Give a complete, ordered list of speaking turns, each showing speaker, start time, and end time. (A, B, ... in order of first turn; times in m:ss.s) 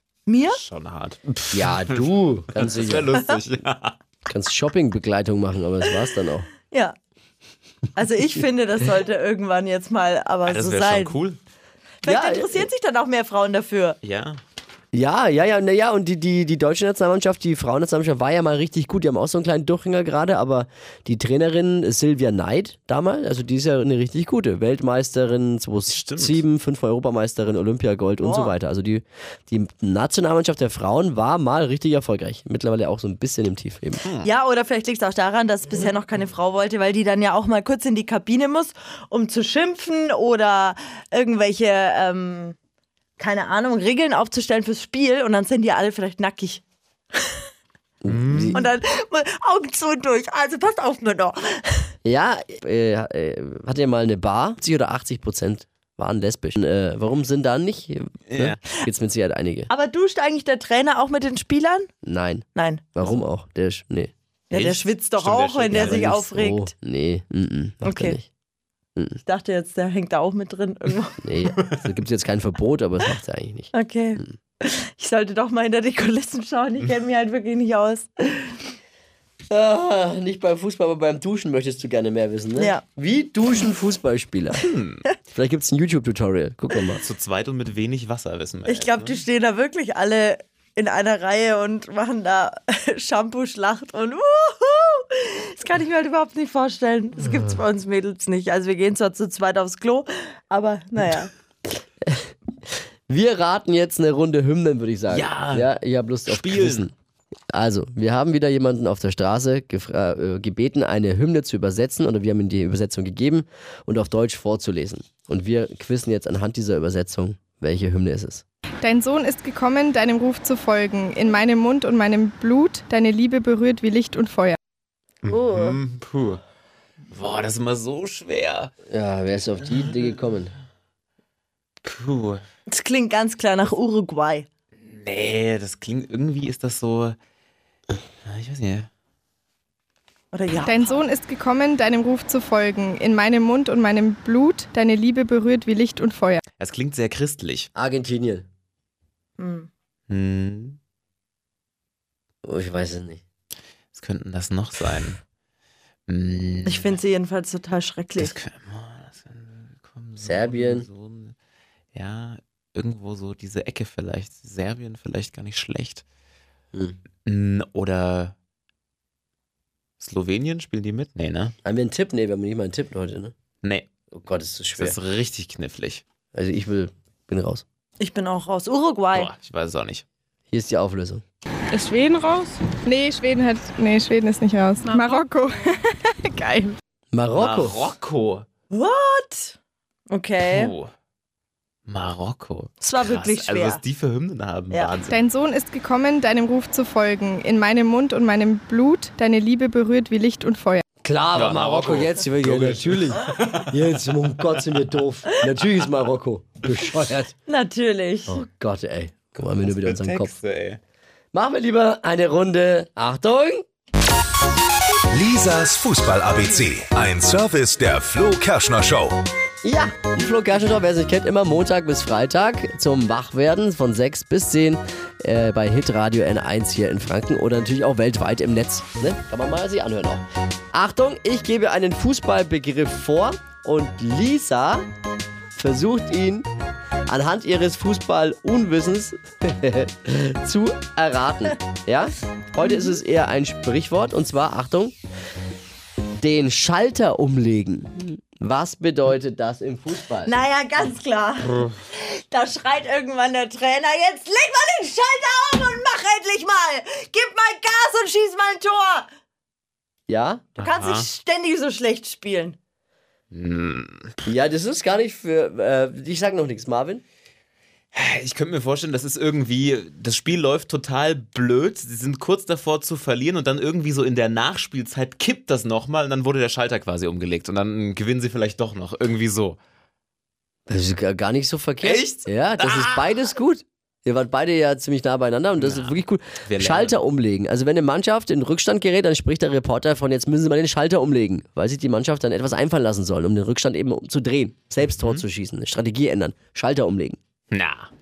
0:00.3-0:00.6 A
0:00.5-0:04.0 B
0:01.5-0:03.2 C
0:04.3-0:06.5 C
0:06.7-0:07.0 A
0:08.0-0:11.2 A
0:10.5-0:11.4 B
0:12.0-0:14.0 A
0:12.0-0:12.7 C
0:14.0-0:14.4 B
0:14.9-0:34.0 C
0:25.9-0:26.4 B
0:28.2-0:28.5 A
0:34.2-0:42.6 A
0:43.2-0:46.6 A
0:47.2-0:47.4 A
0:48.0-0:48.6 C
0:48.1-0:48.6 B
0:48.5-0:51.9 A
0:52.0-0:59.7 C
0:58.3-0:58.6 B
0:59.7-1:01.9 A
1:02.0-1:04.1 C
1:02.6-1:03.0 A
1:04.5-1:06.2 B
1:04.5-1:06.7 A
1:05.7-1:08.3 C
1:07.8-1:08.2 A
1:09.3-1:11.4 A
1:11.2-1:14.3 C
1:13.7-1:18.7 A
1:19.5-1:24.6 C
1:22.6-1:22.8 A
1:24.6-1:25.0 B
1:25.3-1:27.0 C
1:27.0-1:29.2 B
1:28.7-1:41.3 A
1:43.1-1:46.9 C
1:45.1-1:45.7 B
1:46.2-1:46.9 B
1:47.5-1:58.4 C
1:58.8-2:04.6 D
2:05.2-2:06.4 B
2:07.1-2:08.7 B
2:08.9-2:10.5 C
2:11.8-2:12.4 B
2:12.7-2:14.5 A
2:14.8-2:17.2 B
2:18.3-2:18.9 B
2:20.3-2:21.0 A
2:20.6-2:26.4 D
2:26.6-2:27.7 B
2:27.8-2:28.5 C
2:29.4-2:29.7 A
2:30.1-2:30.8 B
2:32.4-2:33.2 C
2:33.9-2:35.2 B
2:36.1-2:37.0 B
2:36.6-2:38.4 A
2:38.2-2:41.4 B
2:40.2-2:40.9 C
2:41.9-2:46.0 B
2:47.3-2:48.4 B
2:50.0-2:51.6 B
2:51.6-2:53.3 C
2:53.6-2:53.9 B
2:54.1-2:55.0 C
2:54.8-2:56.0 B
2:56.4-2:57.6 C
2:58.0-2:59.3 A
2:59.1-3:00.0 B
3:00.5-3:01.2 C
3:01.8-3:06.7 D
3:07.1-3:07.9 C
3:07.3-3:08.5 B
3:08.7-3:09.6 A
3:10.1-3:10.7 A
3:10.5-3:10.9 B
3:11.9-3:15.2 B
3:12.8-3:13.8 A
3:15.1-3:20.8 D
3:21.0-3:27.3 C
3:21.3-3:23.7 B
3:27.5-3:28.4 A
3:28.3-3:30.3 C
3:29.6-3:30.8 B
3:31.3-3:33.6 C
3:35.1-3:39.2 E
3:39.6-3:54.9 C
3:55.5-3:56.5 C
3:57.1-4:04.9 C
4:02.6-4:03.0 A
4:06.2-4:10.4 C
4:10.2-4:19.1 A
4:20.1-4:20.5 C
4:20.6-4:21.1 B
4:20.6-4:22.6 A
4:23.3-4:24.1 B
4:24.2-4:27.0 C
4:27.9-4:39.6 B
4:40.7-4:57.2 C
4:41.8-4:43.1 B
4:45.6-4:47.0 B
4:55.0-4:55.2 B
4:57.5-4:57.9 B